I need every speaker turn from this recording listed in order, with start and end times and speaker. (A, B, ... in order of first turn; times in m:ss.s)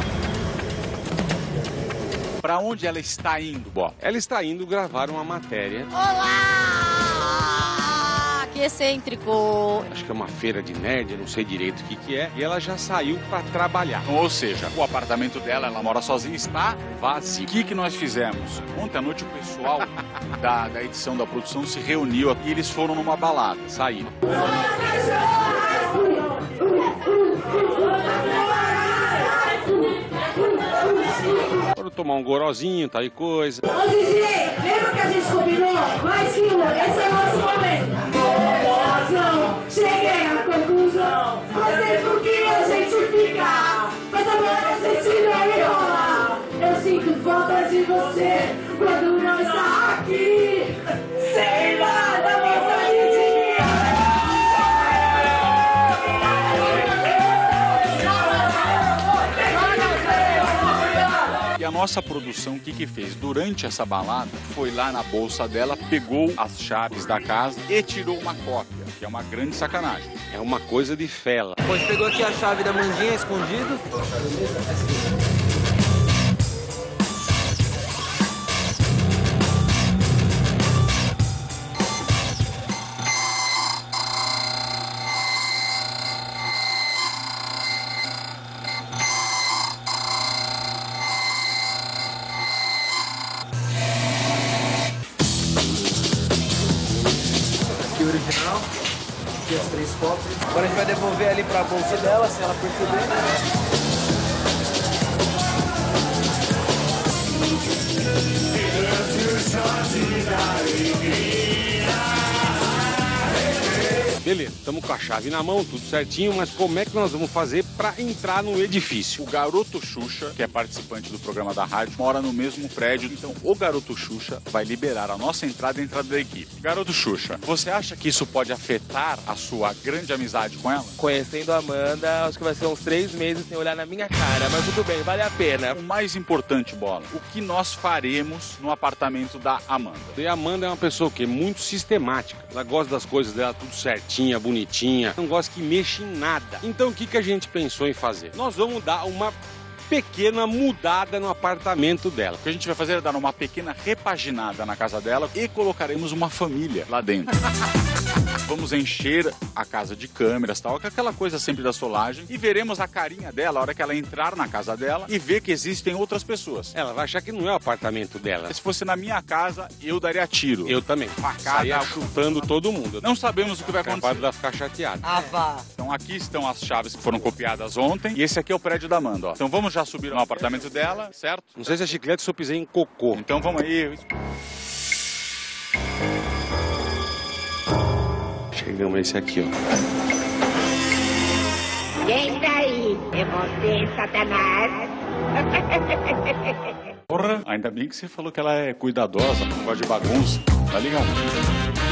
0:02.4-0:04.0 A
0:04.0-0:05.9 B
0:05.9-0:09.9 C
0:09.9-0:14.1 B
0:14.0-0:23.8 A
0:17.0-0:17.4 B
0:23.7-0:24.1 B
0:24.8-0:26.5 C
0:27.4-0:31.2 C
0:31.6-0:33.6 B
0:33.7-0:54.0 C
0:58.0-0:58.6 C
0:59.4-1:00.5 C
1:01.6-1:10.1 A
1:10.3-1:11.6 B
1:11.7-1:14.6 D
1:38.2-1:38.5 D
1:39.6-1:43.1 D
1:54.1-1:59.2 B
1:59.2-2:11.0 A
2:11.0-2:15.8 D
2:15.7-2:20.2 A
2:20.2-2:29.4 B
2:29.9-2:32.4 B
2:32.4-2:37.3 A
2:38.4-2:46.8 A
2:46.7-2:48.6 B
2:48.5-2:52.5 A
2:50.6-2:53.1 B
2:53.0-2:54.3 A
2:53.8-2:55.2 B
2:55.0-2:55.6 D
2:55.8-3:01.8 A
3:00.1-3:00.9 B
3:01.6-3:03.2 B
3:03.1-3:04.1 A
3:08.5-3:09.5 B
3:12.0-3:14.9 E
3:15.6-3:16.5 E
3:17.1-3:21.2 A